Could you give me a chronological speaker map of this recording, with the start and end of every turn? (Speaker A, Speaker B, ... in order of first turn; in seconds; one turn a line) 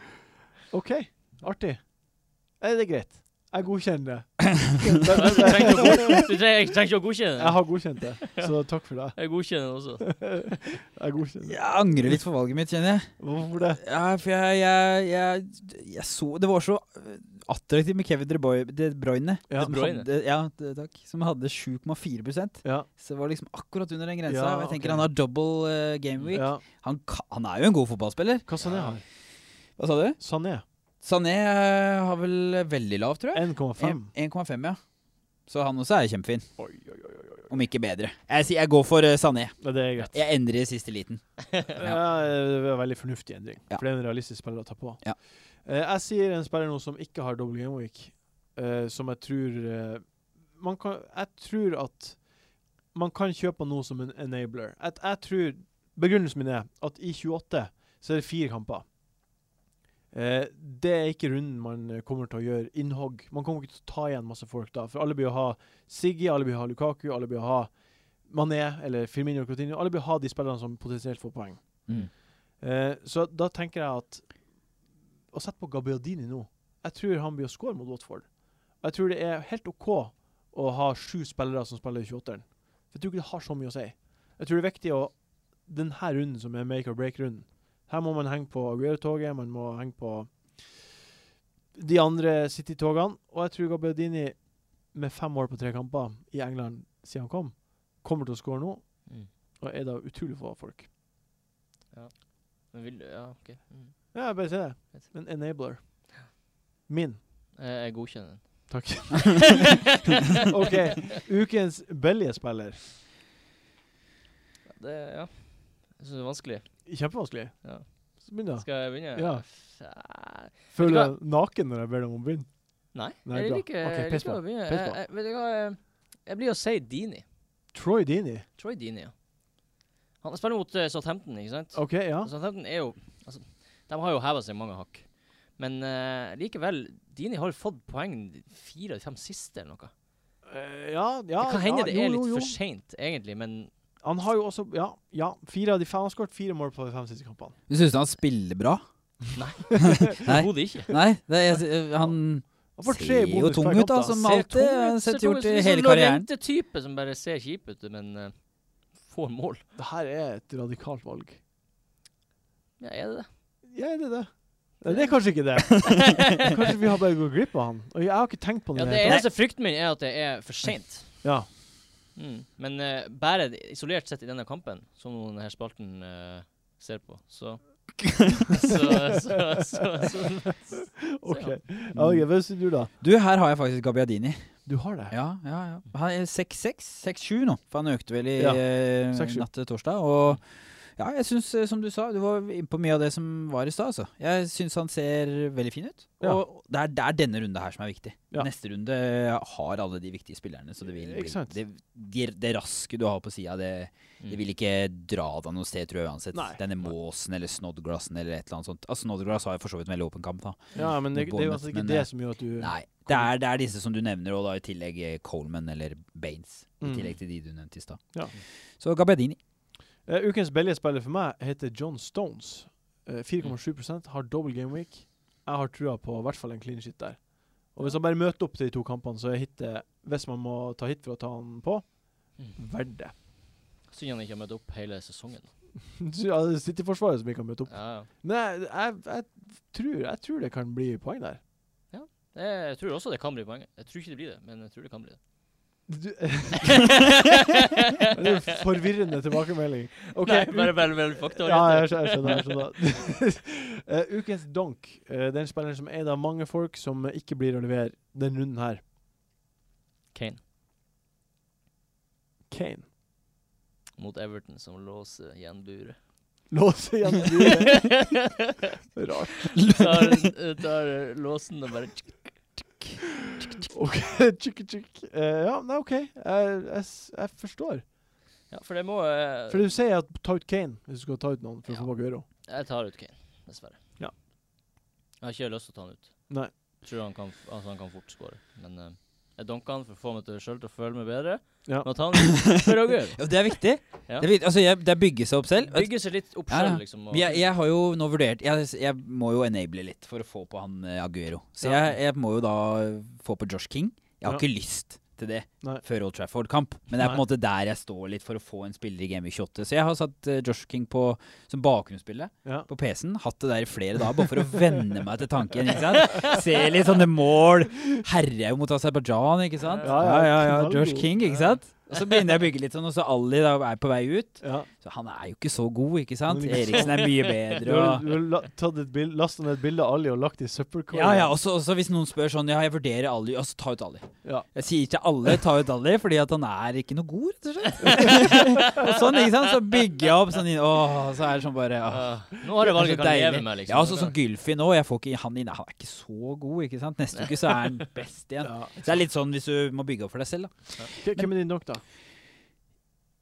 Speaker A: 0.7-6.3
Speaker B: 5.0-8.5
Speaker A: 7.4-12.2
Speaker B: 9.1-10.6
Speaker C: 11.4-28.5
Speaker A: 13.2-13.8
Speaker A: 19.5-19.8
Speaker B: 19.6-20.1
Speaker A: 24.3-25.1
Speaker B: 26.1-26.4
Speaker A: 26.3-26.6
Speaker A: 28.5-29.0
Speaker B: 28.6-29.0
Speaker C: 29.8-30.2
Speaker A: 30.2-30.6
Speaker C: 31.0-34.8
Speaker A: 33.3-34.1
Speaker C: 35.5-36.5
Speaker A: 36.6-37.5
Speaker C: 37.5-42.0
Speaker A: 39.6-40.1
Speaker A: 41.8-52.3
Speaker A: 52.9-58.9
Speaker A: 60.1-74.4
Speaker A: 75.3-90.9
Speaker A: 91.8-100.9
Speaker B: 101.9-104.3
Speaker A: 104.1-106.3
Speaker A: 106.9-107.2
Speaker B: 107.6-108.8
Speaker A: 108.7-109.8
Speaker B: 109.3-110.8
Speaker A: 110.4-112.9
Speaker B: 114.7-117.0
Speaker A: 116.9-119.5
Speaker B: 117.6-121.2
Speaker A: 120.7-125.0
Speaker B: 122.9-127.2
Speaker A: 127.7-128.5
Speaker B: 128.6-129.1
Speaker B: 130.2-139.9
Speaker A: 131.7-132.3
Speaker A: 140.5-142.6
Speaker B: 141.4-143.7
Speaker A: 144.0-147.6
Speaker C: 147.7-148.8
Speaker B: 149.3-150.9
Speaker C: 150.1-156.3
Speaker A: 152.8-154.2
Speaker B: 154.1-159.7
Speaker A: 159.8-161.4
Speaker B: 162.8-163.3
Speaker A: 163.7-169.2
Speaker B: 164.8-166.6
Speaker C: 165.8-166.1
Speaker B: 168.7-171.3
Speaker C: 169.0-169.3
Speaker A: 171.2-171.5
Speaker B: 172.2-181.6
Speaker C: 178.1-178.3
Speaker A: 180.7-182.9
Speaker C: 181.9-182.3
Speaker C: 183.0-219.4
Speaker A: 184.7-185.1
Speaker A: 188.4-189.5
Speaker A: 200.9-201.6
Speaker A: 206.3-206.6
Speaker A: 210.8-213.3
Speaker A: 216.8-217.2
Speaker A: 220.1-233.1
Speaker B: 233.9-235.5
Speaker A: 235.9-241.4
Speaker B: 237.7-238.1
Speaker B: 241.9-245.2
Speaker A: 245.9-247.1
Speaker B: 246.7-248.3
Speaker A: 248.1-258.8
Speaker B: 250.2-252.6
Speaker B: 260.1-260.4
Speaker A: 262.5-262.9
Speaker B: 264.0-266.0
Speaker A: 266.5-268.3
Speaker B: 267.5-268.5
Speaker A: 269.0-270.2
Speaker B: 269.7-272.9
Speaker A: 273.7-277.9
Speaker B: 278.5-279.7
Speaker A: 279.5-282.3
Speaker B: 281.7-283.8
Speaker B: 285.2-294.3
Speaker C: 293.2-328.1
Speaker B: 295.6-297.5
Speaker B: 315.9-316.4
Speaker B: 319.7-320.0
Speaker A: 319.8-321.1
Speaker B: 321.3-322.0
Speaker A: 324.4-324.7
Speaker A: 326.3-331.3
Speaker C: 330.9-351.3
Speaker A: 337.8-338.2
Speaker B: 337.9-339.0
Speaker B: 341.9-344.2
Speaker B: 347.1-347.9
Speaker A: 348.4-348.8
Speaker A: 351.0-351.8